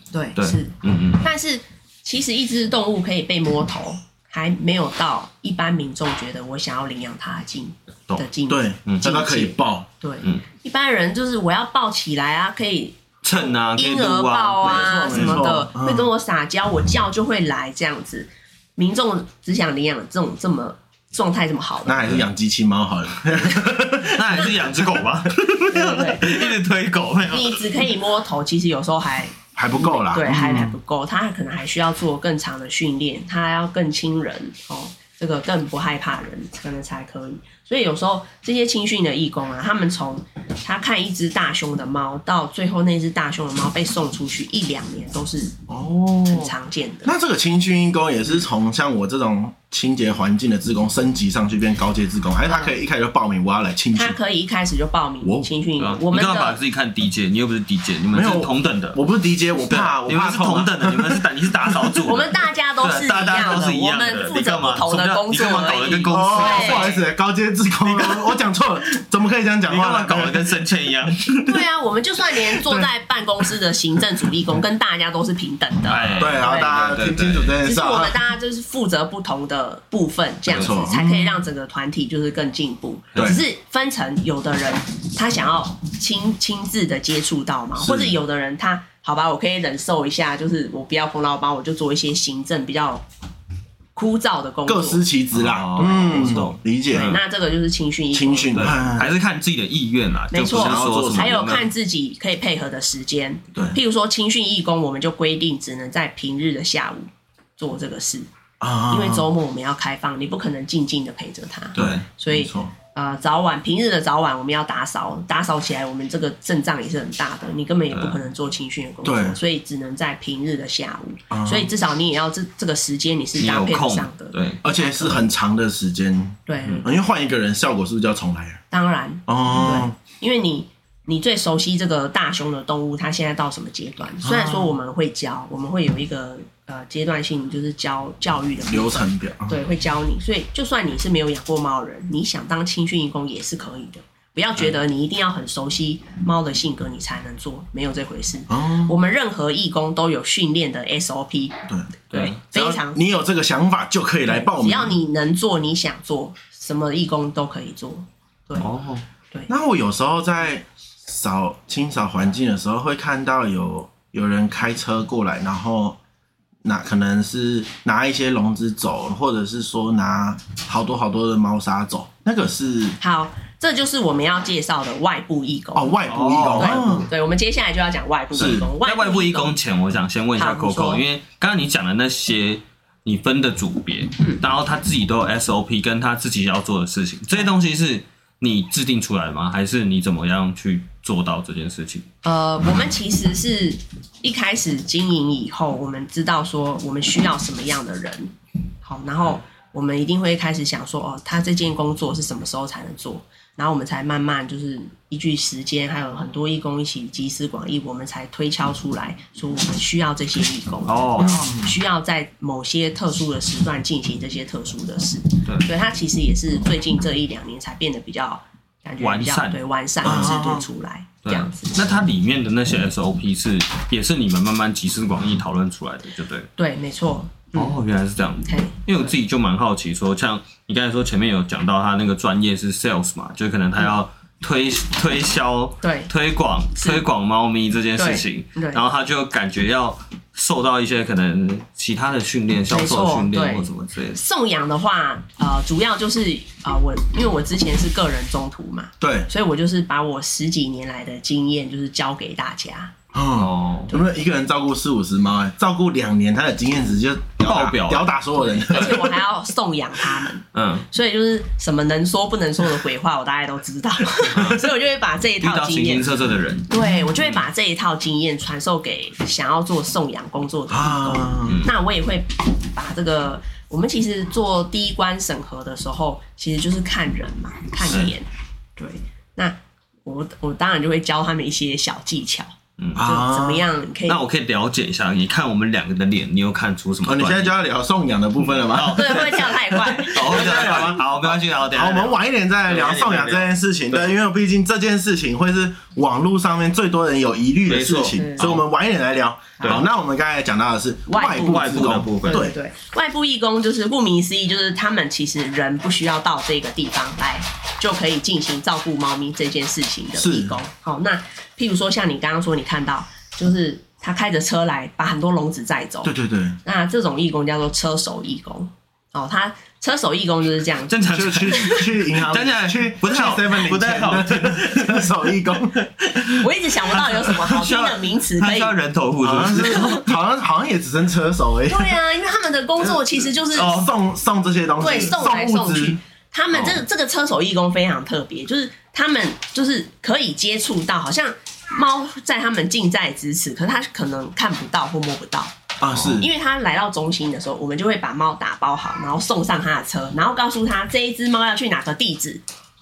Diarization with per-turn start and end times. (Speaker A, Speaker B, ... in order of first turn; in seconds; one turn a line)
Speaker A: 0.1-22.2
Speaker B: 0.4-1.2
Speaker C: 8.5-9.9
Speaker B: 13.2-15.4
Speaker C: 14.6-16.1
Speaker C: 21.9-25.0
Speaker B: 24.0-27.8
Speaker A: 25.7-26.6
Speaker A: 27.3-45.6
Speaker C: 29.6-30.8
Speaker C: 45.7-46.5
Speaker A: 46.2-47.1
Speaker C: 47.0-54.2
Speaker A: 52.5-52.8
Speaker A: 53.9-56.6
Speaker C: 55.2-55.5
Speaker B: 55.8-59.0
Speaker C: 58.1-62.0
Speaker B: 59.7-67.0
Speaker A: 62.0-66.9
Speaker C: 66.1-70.5
Speaker B: 67.9-68.3
Speaker B: 69.7-71.6
Speaker A: 71.5-76.9
Speaker B: 75.9-77.5
Speaker C: 76.2-78.2
Speaker A: 77.6-93.0
Speaker C: 80.5-81.3
Speaker B: 83.1-83.4
Speaker C: 83.2-83.4
Speaker C: 87.8-88.2
Speaker A: 93.9-95.0
Speaker C: 94.7-97.1
Speaker B: 95.3-97.2
Speaker A: 95.8-99.1
Speaker C: 98.1-99.1
Speaker B: 98.5-101.7
Speaker A: 100.3-108.3
Speaker C: 100.4-101.3
Speaker C: 108.6-109.3
Speaker A: 108.9-125.2
Speaker B: 111.8-112.0
Speaker C: 111.8-112.7
Speaker B: 117.9-118.2
Speaker C: 119.0-119.4
Speaker C: 121.3-121.7
Speaker B: 123.4-124.6
Speaker C: 124.6-128.6
Speaker A: 126.5-126.9
Speaker A: 128.7-151.6
Speaker C: 129.3-129.9
Speaker C: 134.2-134.7
Speaker C: 138.7-139.6
Speaker C: 148.5-148.9
Speaker C: 151.7-154.9
Speaker B: 152.1-152.4
Speaker A: 152.1-153.0
Speaker A: 154.3-158.7
Speaker B: 158.6-159.0
Speaker C: 159.5-166.0
Speaker C: 166.6-173.0
Speaker A: 173.0-176.0
Speaker C: 175.7-177.1
Speaker B: 176.1-177.0
Speaker A: 176.6-179.5
Speaker C: 178.3-178.7
Speaker B: 178.4-192.1
Speaker A: 180.4-181.0
Speaker A: 192.2-221.9
Speaker B: 210.9-211.4
Speaker C: 211.2-211.7
Speaker B: 219.0-220.4
Speaker C: 220.0-220.7
Speaker B: 221.2-226.5
Speaker A: 226.6-227.8
Speaker B: 227.5-244.2
Speaker A: 228.4-229.1
Speaker A: 235.8-236.1
Speaker A: 236.8-237.0
Speaker A: 238.0-238.8
Speaker A: 242.7-252.9
Speaker C: 249.0-249.3
Speaker C: 253.1-259.1
Speaker B: 253.4-253.9
Speaker B: 257.4-259.1
Speaker A: 258.6-284.2
Speaker B: 260.5-260.9
Speaker B: 265.4-267.4
Speaker C: 270.7-271.6
Speaker B: 282.8-283.1
Speaker C: 282.9-283.7
Speaker B: 284.1-287.6
Speaker C: 287.0-302.6
Speaker B: 288.6-294.1
Speaker A: 288.8-290.9
Speaker B: 297.7-298.6
Speaker A: 298.1-298.5
Speaker A: 301.1-316.1
Speaker B: 301.3-302.5
Speaker C: 310.2-310.6
Speaker C: 316.0-316.6
Speaker A: 316.6-321.7
Speaker B: 320.9-326.3
Speaker C: 321.1-326.2
Speaker A: 326.3-328.8
Speaker B: 326.9-330.1
Speaker C: 329.2-332.0
Speaker A: 329.6-330.0
Speaker A: 331.7-333.8
Speaker B: 333.5-333.9
Speaker C: 333.6-336.0
Speaker A: 334.8-352.4
Speaker B: 336.5-336.8
Speaker C: 345.8-346.3